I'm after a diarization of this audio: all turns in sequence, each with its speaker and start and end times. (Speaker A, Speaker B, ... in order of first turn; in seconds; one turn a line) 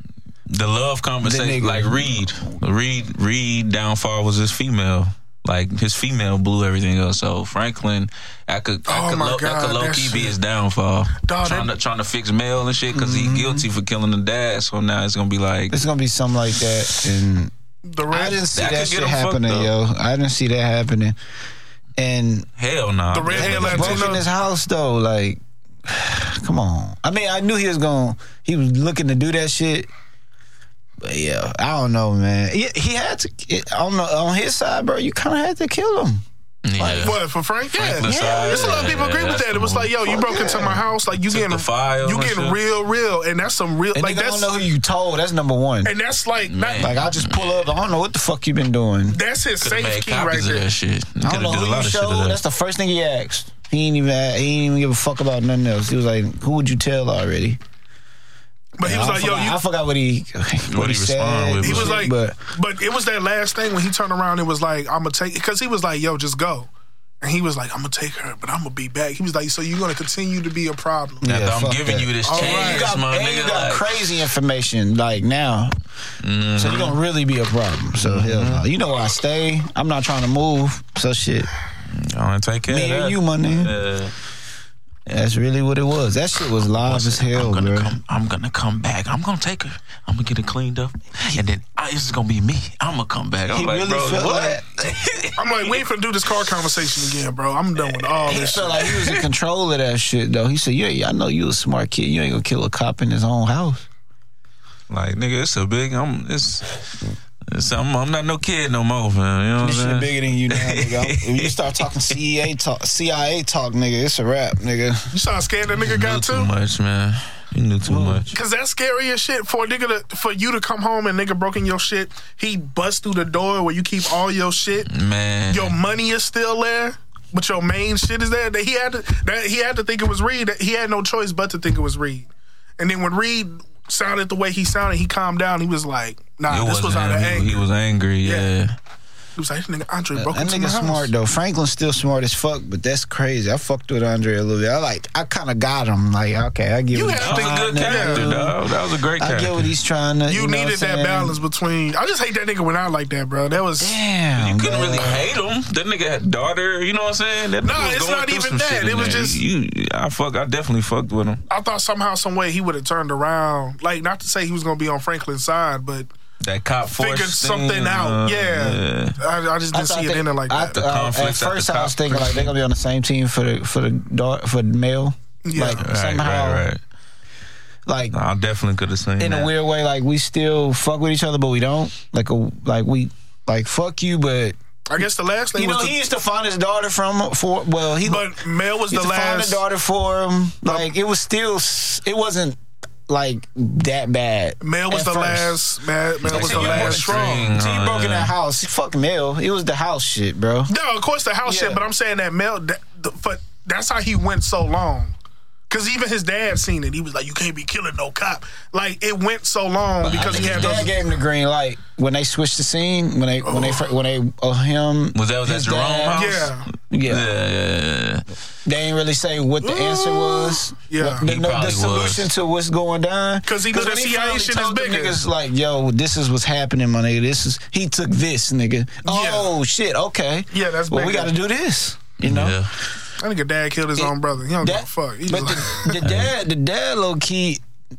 Speaker A: 0.5-15.8
Speaker B: 1.2-2.2
Speaker C: 8.8-10.3
Speaker C: 11.2-11.7
Speaker B: 12.9-13.7
Speaker B: 15.7-17.5
Speaker C: 17.9-18.4
Speaker B: 18.1-21.1
Speaker A: 18.5-19.7
Speaker B: 22.0-22.5
Speaker A: 22.6-24.2
Speaker C: 23.1-24.2
Speaker B: 23.3-29.9
Speaker B: 31.0-36.2
Speaker A: 36.6-37.2
Speaker B: 36.8-37.2
Speaker C: 37.0-44.5
Speaker A: 37.7-40.1
Speaker B: 38.0-39.0
Speaker B: 40.1-40.8
Speaker A: 41.2-42.6
Speaker B: 43.9-45.9
Speaker C: 45.8-47.0
Speaker A: 46.5-47.7
Speaker B: 46.8-49.2
Speaker C: 49.1-50.7
Speaker A: 49.6-52.4
Speaker B: 51.2-57.6
Speaker C: 58.8-59.6
Speaker B: 58.8-62.4
Speaker A: 60.7-62.1
Speaker C: 61.6-66.7
Speaker C: 67.2-71.3
Speaker B: 71.2-75.7
Speaker A: 71.2-73.9
Speaker C: 72.2-72.9
Speaker A: 76.2-77.0
Speaker B: 76.5-81.5
Speaker A: 78.0-78.7
Speaker A: 81.9-84.1
Speaker B: 82.7-83.7
Speaker B: 85.1-88.0
Speaker A: 86.8-95.8
Speaker B: 93.5-94.6
Speaker C: 95.4-98.8
Speaker A: 97.8-99.2
Speaker B: 98.3-103.8
Speaker A: 104.9-111.7
Speaker B: 109.6-115.1
Speaker C: 115.1-116.5
Speaker A: 115.7-118.3
Speaker B: 117.8-118.3
Speaker C: 118.3-124.9
Speaker A: 124.9-125.7
Speaker C: 125.5-137.6
Speaker A: 136.5-138.8
Speaker C: 138.2-138.5
Speaker C: 139.4-141.1
Speaker B: 140.1-151.4
Speaker C: 146.9-148.3
Speaker A: 147.2-149.7
Speaker C: 150.3-154.0
Speaker B: 153.8-155.3
Speaker A: 154.4-161.4
Speaker C: 157.6-159.4
Speaker C: 161.5-166.1
Speaker A: 166.4-169.2
Speaker C: 166.9-170.8
Speaker B: 169.7-176.7
Speaker A: 170.7-172.5
Speaker C: 175.4-175.8
Speaker A: 175.8-176.8
Speaker B: 177.8-178.1
Speaker A: 178.1-179.5
Speaker B: 179.2-184.5
Speaker C: 184.9-185.9
Speaker B: 185.5-188.3
Speaker C: 188.0-189.6
Speaker B: 188.9-195.6
Speaker C: 194.6-197.5
Speaker B: 196.2-200.7
Speaker A: 196.2-198.3
Speaker C: 200.7-205.1
Speaker B: 201.4-201.8
Speaker C: 205.7-210.9
Speaker B: 210.0-216.2
Speaker A: 210.1-210.9
Speaker C: 213.4-213.8
Speaker A: 215.1-218.2
Speaker C: 216.1-216.7
Speaker B: 216.9-217.3
Speaker B: 218.6-232.6
Speaker C: 219.6-221.2
Speaker A: 221.2-222.3
Speaker C: 223.4-225.2
Speaker C: 229.0-229.5
Speaker C: 230.5-231.3
Speaker A: 232.2-232.7
Speaker C: 233.2-236.0
Speaker B: 234.0-237.6
Speaker A: 236.0-236.3